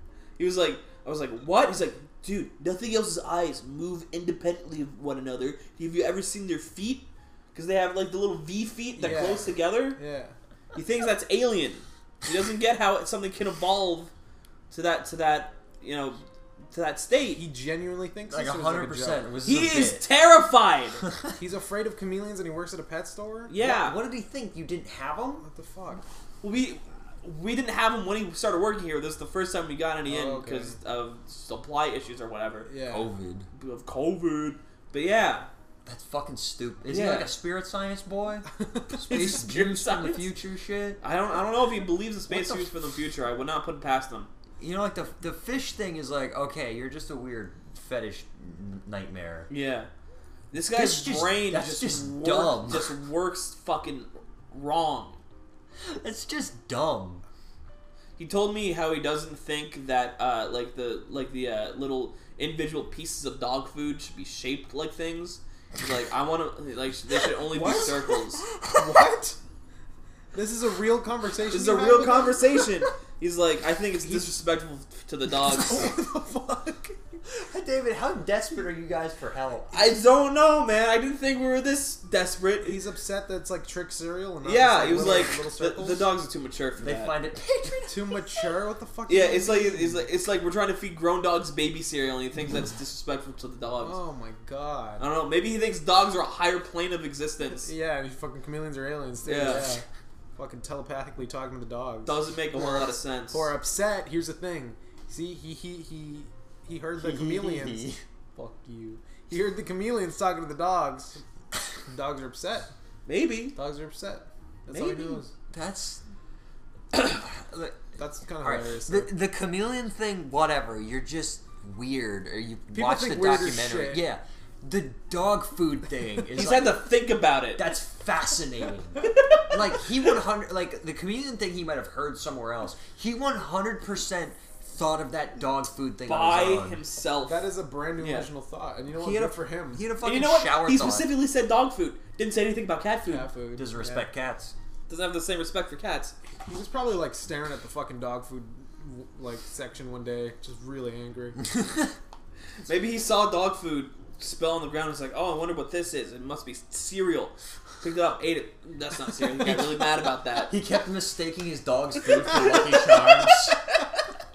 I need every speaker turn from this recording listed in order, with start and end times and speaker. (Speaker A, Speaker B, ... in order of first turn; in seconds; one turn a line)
Speaker A: 0.4-10.0
Speaker B: 8.9-10.3
Speaker A: 10.7-14.1
Speaker A: 14.7-17.4
Speaker B: 17.4-19.3
Speaker C: 18.3-20.0
Speaker A: 19.4-21.0
Speaker B: 21.4-23.5
Speaker A: 23.5-24.0
Speaker C: 23.6-25.4
Speaker B: 25.4-26.0
Speaker A: 26.4-32.7
Speaker B: 30.0-30.8
Speaker B: 32.6-33.1
Speaker C: 32.9-33.5
Speaker A: 33.5-35.5
Speaker C: 35.9-41.0
Speaker A: 36.9-37.4
Speaker A: 39.1-40.3
Speaker A: 41.0-44.3
Speaker C: 42.3-42.7
Speaker C: 44.6-49.5
Speaker A: 49.5-49.9
Speaker A: 50.5-55.2
Speaker C: 50.7-52.9
Speaker C: 55.8-57.2
Speaker A: 58.2-68.4
Speaker B: 67.5-68.0
Speaker B: 68.7-69.4
Speaker B: 70.3-72.7
Speaker A: 71.5-76.0
Speaker B: 74.0-74.3
Speaker B: 75.5-77.0
Speaker C: 77.3-79.9
Speaker A: 79.7-82.8
Speaker B: 82.6-86.1
Speaker A: 84.4-87.2
Speaker C: 86.8-88.3
Speaker B: 87.9-90.1
Speaker A: 89.1-94.0
Speaker B: 93.8-95.1
Speaker A: 95.0-97.7
Speaker B: 97.6-99.8
Speaker A: 99.2-99.7
Speaker B: 100.3-111.2
Speaker A: 102.1-103.5
Speaker C: 107.0-108.0
Speaker B: 111.9-112.7
Speaker A: 113.1-113.6
Speaker B: 113.5-115.3
Speaker A: 114.7-115.2
Speaker C: 115.5-116.0
Speaker C: 116.9-117.8
Speaker B: 118.0-119.1
Speaker C: 118.4-126.9
Speaker B: 122.7-124.1
Speaker A: 126.3-127.7
Speaker C: 127.6-136.8
Speaker A: 136.1-138.3
Speaker B: 137.3-139.8
Speaker C: 138.9-141.2
Speaker A: 140.0-143.3
Speaker B: 143.1-144.1
Speaker C: 143.6-144.5
Speaker A: 144.9-146.2
Speaker B: 146.4-151.4
Speaker A: 152.7-160.5
Speaker C: 159.4-159.9
Speaker C: 160.4-163.6
Speaker B: 162.6-163.3